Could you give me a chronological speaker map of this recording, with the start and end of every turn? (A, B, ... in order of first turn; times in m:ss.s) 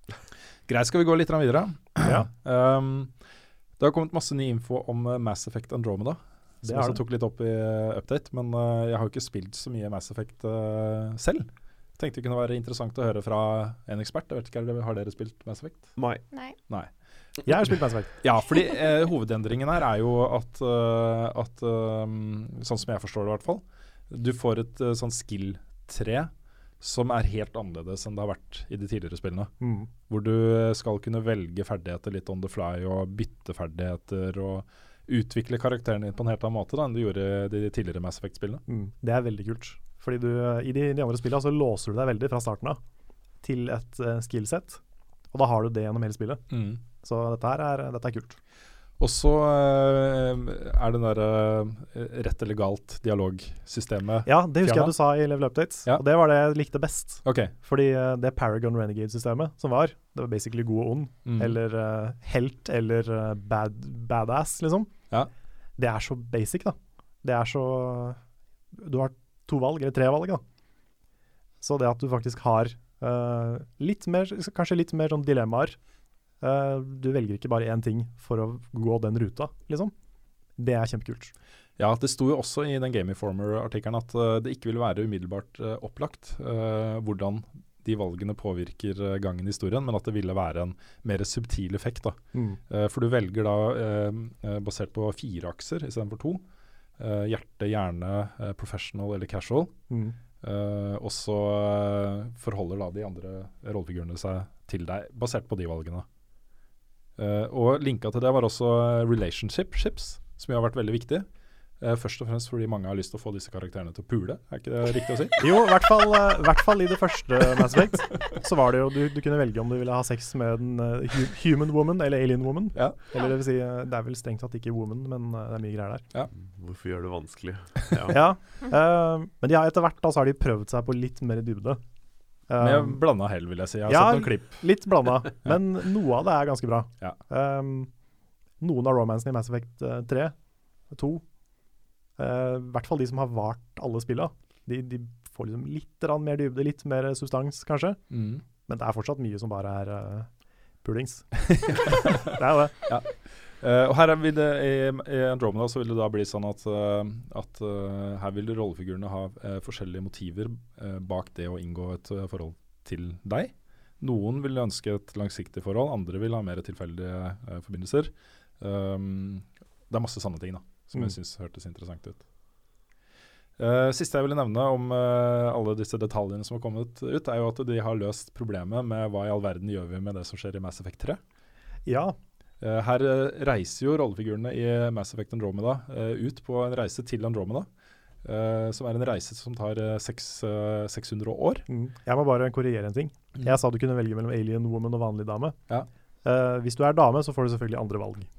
0:00.7-0:03.1 A
0:02.0-0:02.3 B
0:03.8-0:15.9 A
0:06.6-0:07.0 B
0:16.0-0:16.2 C
0:17.4-0:18.2 B
0:18.2-0:29.5 A
0:29.6-0:29.9 B
0:30.1-0:38.6 A
0:38.7-0:42.8 B
0:43.4-0:44.8 B
0:45.3-0:46.4 B
0:46.5-0:46.8 A
0:47.0-0:48.4 B
0:49.0-0:55.0 A
0:54.3-1:04.9 B
0:57.2-0:57.5 A
1:01.2-1:01.6 A
1:05.8-1:08.2 B
1:08.7-1:10.4 B
1:11.6-1:15.8 B
1:16.4-1:19.9 B
1:20.6-1:21.3 B
1:21.8-1:36.4 A
1:32.3-1:32.6 B
1:37.0-1:39.8 A
1:39.9-1:40.2 B
1:40.4-1:46.1 A
1:47.2-1:51.3 A
1:51.8-1:55.4 A
1:55.4-2:06.0 B
2:06.4-2:08.2 C
2:08.1-2:11.8 B
2:12.5-2:13.0 B
2:12.6-2:14.6 A
2:13.9-2:17.9 B
2:18.6-2:20.3 B
2:20.9-2:21.2 B
2:22.2-2:28.0 B
2:28.1-2:28.4 A
2:28.7-2:30.3 B
2:30.8-2:32.8 B
2:31.5-2:32.3 A
2:32.9-2:52.2 A
2:53.6-3:01.2 A
3:01.9-3:02.2 B
3:02.6-3:07.7 A
3:08.2-3:11.7 A
3:11.7-3:15.6 B
3:16.2-3:18.3 B